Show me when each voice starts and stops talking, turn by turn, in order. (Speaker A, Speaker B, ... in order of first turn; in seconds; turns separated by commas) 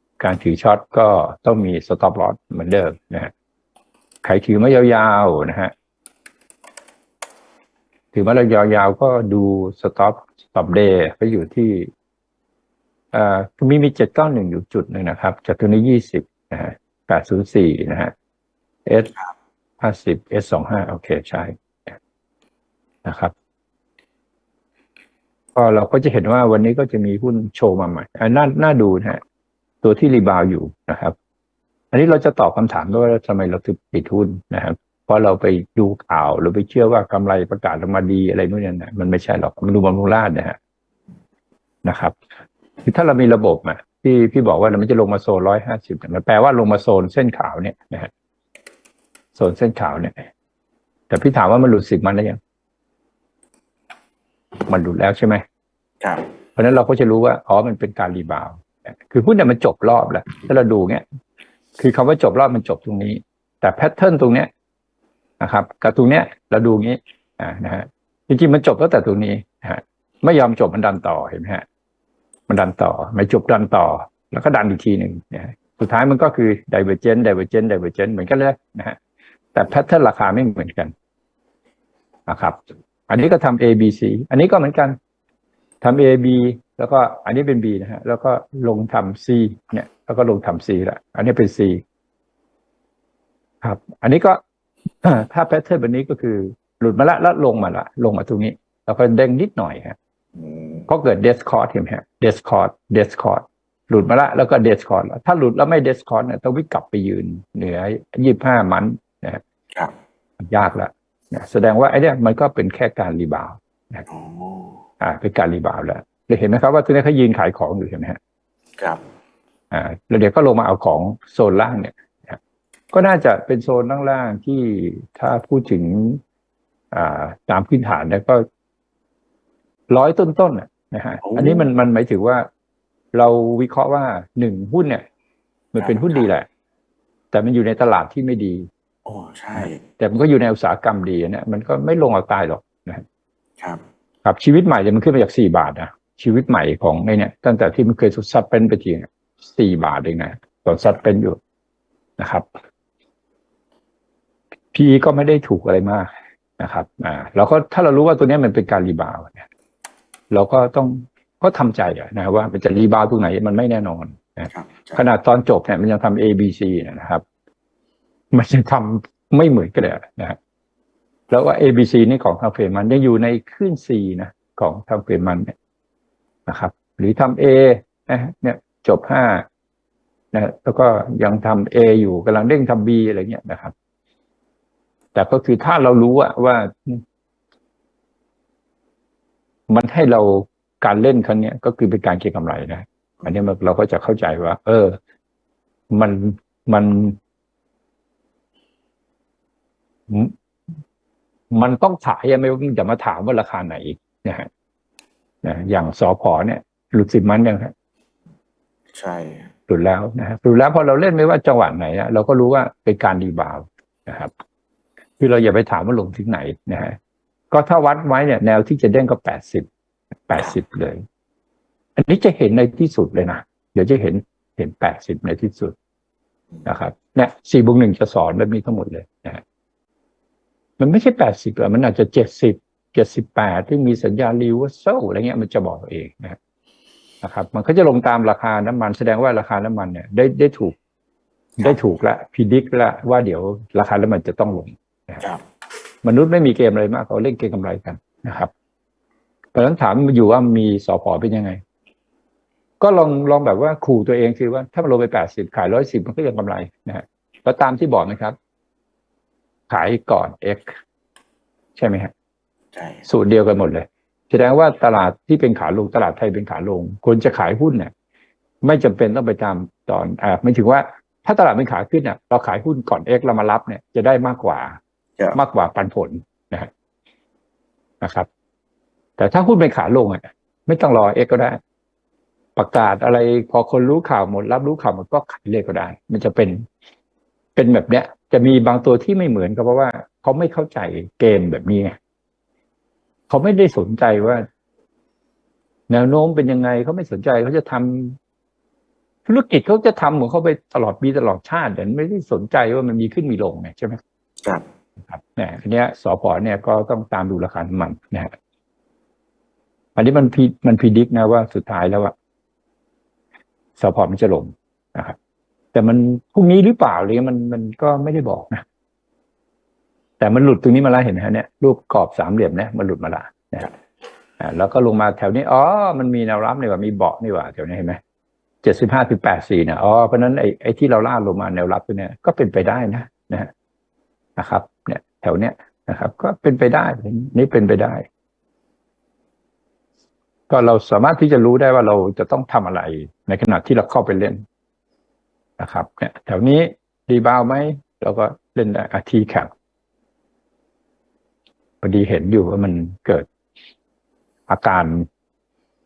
Speaker A: 0.2-3.3, Speaker A: 4.2-5.7, Speaker A: 8.1-11.9, Speaker A: 13.1-18.1, Speaker A: 18.9-19.1, Speaker A: 19.8-22.0, Speaker A: 23.0-23.3, Speaker A: 25.5-29.2, Speaker A: 29.8-31.1, Speaker A: 31.9-40.6, Speaker A: 41.8-42.2, Speaker A: 42.8-48.1, Speaker A: 49.3-50.3, Speaker A: 51.1-52.4, Speaker A: 54.7-55.4, Speaker B: 56.0-56.2, Speaker A: 56.5-61.0, Speaker A: 61.8-64.5, Speaker A: 65.4-71.6, Speaker A: 72.5-79.0, Speaker A: 79.5-80.9, Speaker A: 82.3-85.0, Speaker A: 85.8-91.8, Speaker A: 93.6-100.0, Speaker B: 100.3-100.9, Speaker A: 100.9-109.4, Speaker A: 110.4-114.0, Speaker B: 114.1-114.8, Speaker A: 115.0-118.2, Speaker A: 119.7-122.4, Speaker A: 122.9-126.2, Speaker A: 126.9-128.4, Speaker A: 129.9-132.5, Speaker B: 131.2-131.7, Speaker A: 133.1-135.0, Speaker A: 135.7-136.5, Speaker B: 135.8-136.3, Speaker A: 137.3-138.7, Speaker B: 139.1-139.8, Speaker A: 139.6-143.0, Speaker A: 144.2-151.4, Speaker A: 152.2-152.4, Speaker A: 154.7-159.5, Speaker A: 160.3-167.2, Speaker B: 164.5-165.0, Speaker A: 168.3-170.4, Speaker A: 171.3-175.5, Speaker A: 176.5-179.4, Speaker A: 180.3-183.7, Speaker A: 185.1-187.0, Speaker A: 189.7-195.0, Speaker A: 195.9-197.2, Speaker A: 200.1-200.3, Speaker A: 201.5-204.5, Speaker A: 205.4-207.7, Speaker B: 208.9-209.5, Speaker A: 209.7-214.3, Speaker A: 215.2-217.0, Speaker A: 217.5-219.7, Speaker A: 220.3-221.0, Speaker A: 222.0-225.7, Speaker A: 226.6-229.4, Speaker A: 230.8-236.4, Speaker A: 237.2-240.8, Speaker A: 241.6-245.2, Speaker A: 246.0-248.5, Speaker A: 249.5-251.6, Speaker A: 252.8-258.4, Speaker A: 259.7-260.8, Speaker A: 261.8-262.1, Speaker B: 262.7-263.1, Speaker A: 263.1-267.9, Speaker A: 268.6-274.8, Speaker A: 275.3-276.7, Speaker A: 278.0-278.3, Speaker A: 279.2-281.6, Speaker A: 282.6-286.7, Speaker A: 287.6-292.0, Speaker A: 293.3-294.4, Speaker A: 295.9-298.2, Speaker A: 299.2-304.0, Speaker A: 305.1-308.3, Speaker A: 309.9-312.1, Speaker A: 313.8-315.1, Speaker A: 315.7-318.6, Speaker A: 320.2-323.7, Speaker A: 324.4-328.0, Speaker A: 328.6-333.5, Speaker A: 334.4-338.1, Speaker A: 340.5-344.4, Speaker A: 345.6-349.5, Speaker A: 351.8-353.3, Speaker A: 354.5-355.1